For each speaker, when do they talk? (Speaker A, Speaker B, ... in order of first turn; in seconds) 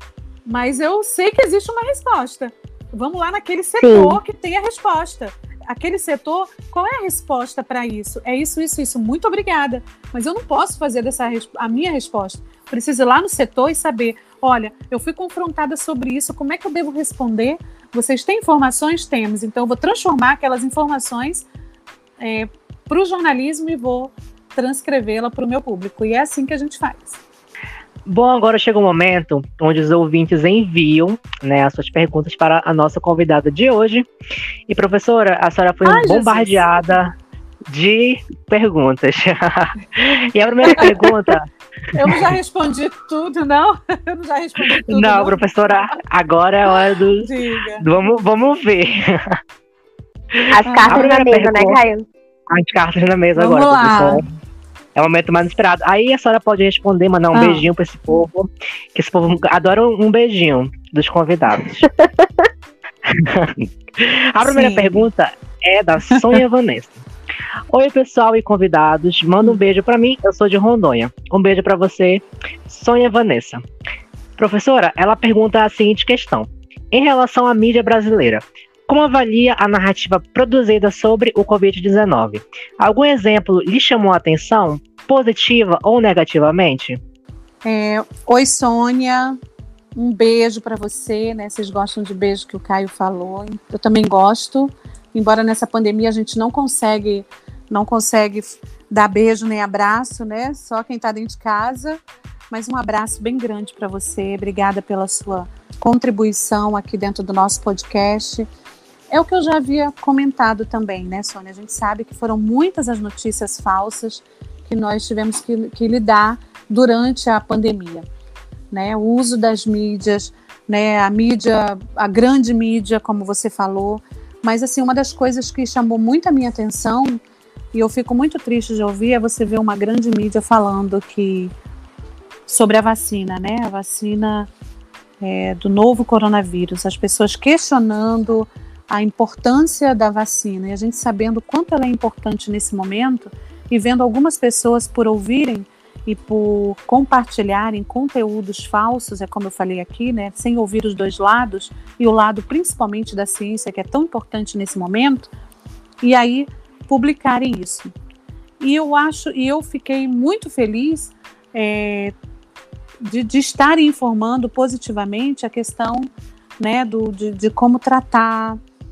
Speaker A: 0.4-21.5, 22.2-27.2, 35.8-36.7, 40.5-41.1, 41.9-46.0, 46.7-47.9, 50.6-51.1, 53.4-54.2, 57.3-57.7, 64.4-65.1, 66.1-66.4, 87.6-89.4, 90.0-102.0, 102.5-108.5, 109.1-118.0, 118.7-127.2, 127.7-131.5, 132.5-134.5, 135.2-155.3, 156.0-157.9, 158.6-162.1, 163.0-166.1, 166.6-168.6
Speaker B: 3.8-4.2, 50.5-52.0, 61.8-62.5
Speaker C: 28.1-34.1, 34.7-37.1, 37.7-41.5, 42.1-42.3, 44.9-49.4, 50.3-51.8, 52.5-54.2, 55.0-61.8, 63.0-67.0, 67.7-73.6, 74.4-87.0